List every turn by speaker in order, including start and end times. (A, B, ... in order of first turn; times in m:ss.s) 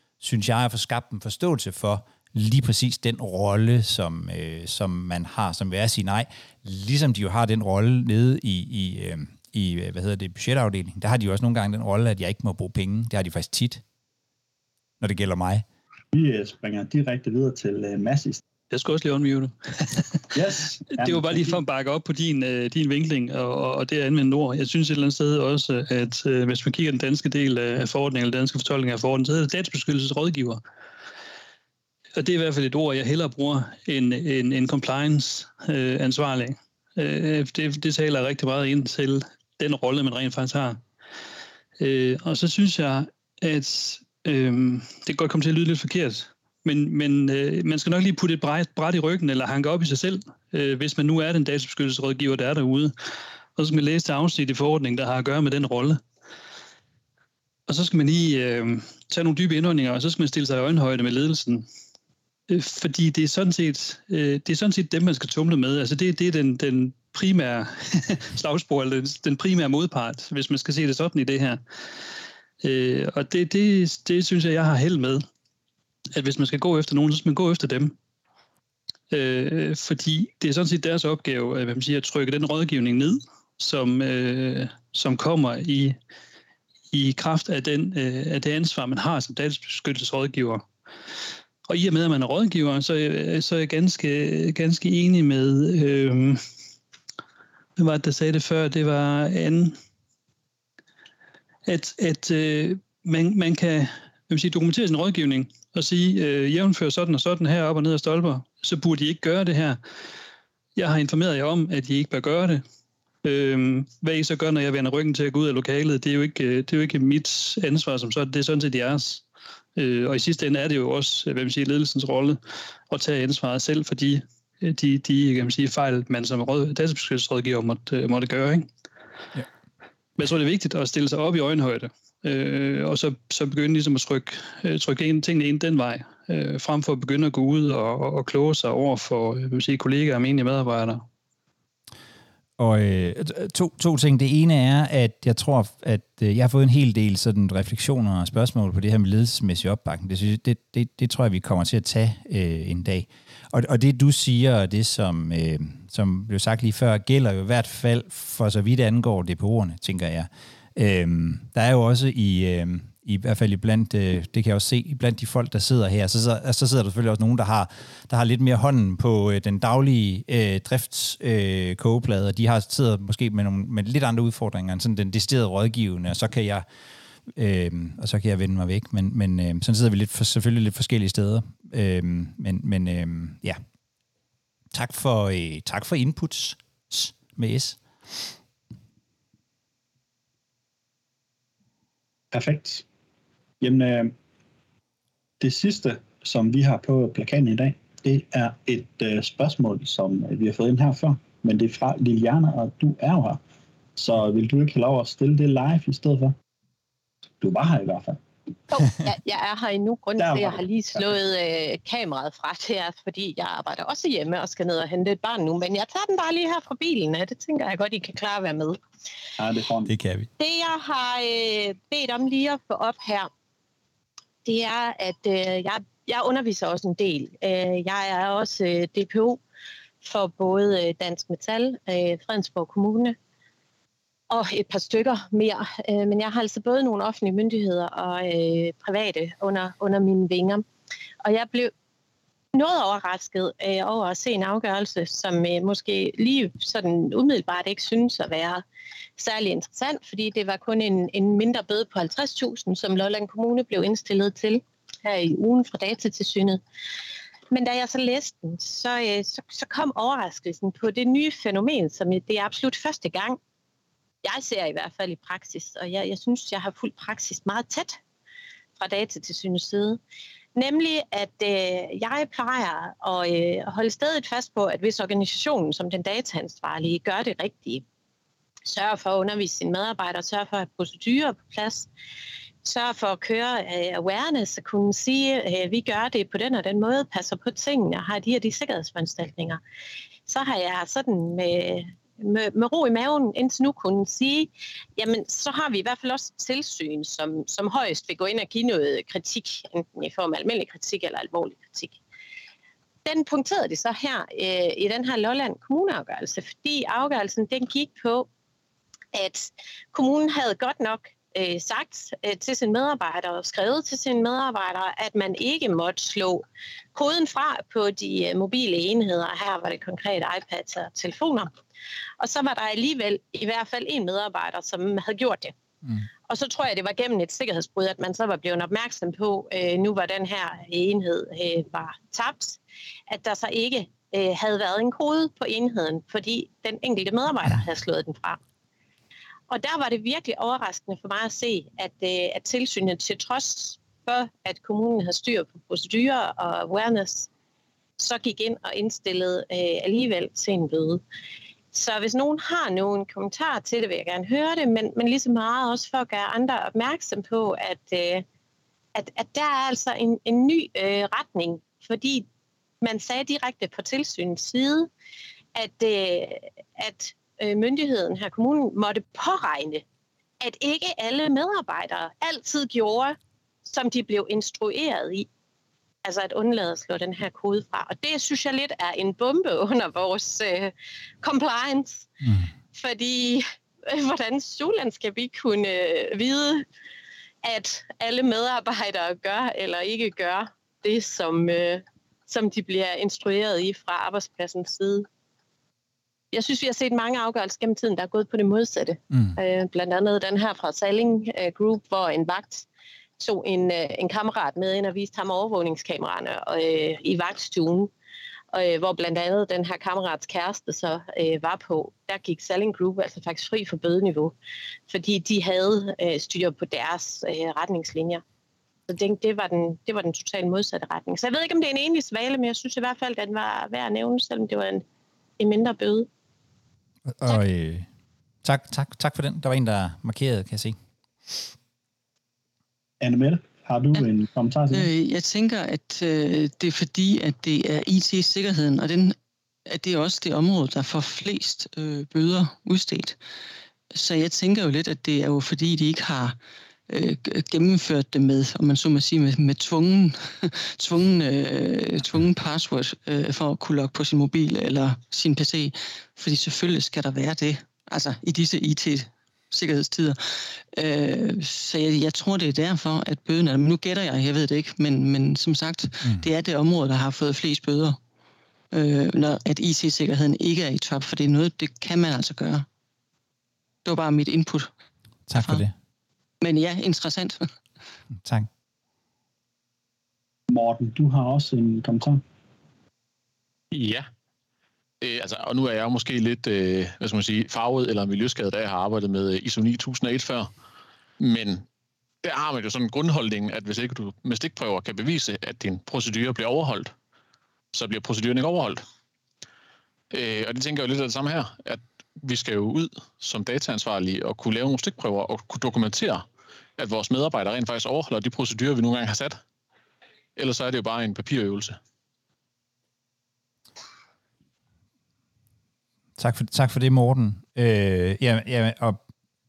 0:00.2-0:13.8 A
0:15.0-0:15.6 A
0:16.1-0:18.4 B
0:18.7-0:20.3 C
0:20.3-0:21.6 B
0:20.9-0:30.6 C
0:32.2-0:40.8 C
0:41.8-0:52.9 C
0:53.6-0:56.0 C
0:57.7-1:01.7 C
1:02.5-1:11.6 C
1:12.6-1:15.2 C
1:16.2-1:18.0 C
1:19.1-1:26.0 C
1:26.9-1:30.7 C
1:31.7-1:36.4 C
1:37.8-1:39.8 C
1:41.6-1:49.8 C
1:50.8-1:52.6 C
1:53.2-1:59.2 C
1:59.8-2:08.7 C
2:10.2-2:21.0 C
2:22.6-2:56.7 A
2:57.3-3:03.6 A
3:04.7-3:08.4 A
3:12.3-3:12.8 B
3:13.6-3:14.1 B
3:15.4-3:23.4 B
3:24.0-3:26.3 B
3:27.4-3:28.2 B
3:28.7-3:38.8 D
3:30.2-3:30.6 B
3:39.4-3:39.9 B
3:39.9-3:40.3 A
3:40.4-3:43.3 D
3:44.4-3:49.4 D
3:50.0-3:53.2 D
3:54.3-4:00.6 D
4:01.2-4:01.7 D
4:02.5-4:08.6 D
4:09.2-4:16.6 D
4:17.5-4:23.4 D
4:24.2-4:28.0 D
4:28.8-4:30.0 D
4:30.6-4:37.8 D
4:38.7-4:41.9 D
4:42.6-4:49.6 D
4:50.3-5:02.0 D
5:03.0-5:08.3 D
5:09.1-5:16.4 D
5:17.0-5:21.5 D
5:22.2-5:25.6 D
5:26.3-5:38.4 D
5:39.5-5:47.3 D
5:48.0-5:51.0 D
5:51.7-5:58.2 D
5:59.0-6:02.3 D
6:02.8-6:04.9 D
6:05.6-6:09.8 D
6:10.4-6:15.3 D
6:16.0-6:22.1 D
6:22.2-6:22.5 A
6:22.7-6:26.6 D
6:27.4-6:35.1 D
6:36.3-6:42.7 D
6:43.2-6:47.9 D
6:48.5-6:54.3 D
6:54.9-6:58.2 D
6:58.9-7:04.8 D
7:05.4-7:06.1 D
7:07.1-7:07.9 A
7:08.4-7:11.5 A
7:13.0-7:14.9 B
7:14.7-7:23.2 E
7:23.9-7:48.0 E
7:48.7-7:52.7 E
7:53.8-7:54.7 E
7:55.3-7:55.7 A
7:55.3-7:55.6 E
7:56.4-7:57.5 E
7:58.2-7:58.5 A
8:00.5-8:02.2 B
8:03.7-8:04.1 F
8:05.0-8:10.5 F
8:11.2-8:11.6 F
8:12.2-8:16.9 F
8:17.7-8:18.8 F
8:20.1-8:26.2 F
8:26.8-8:29.4 F
8:30.4-8:31.8 F
8:36.2-8:39.0 A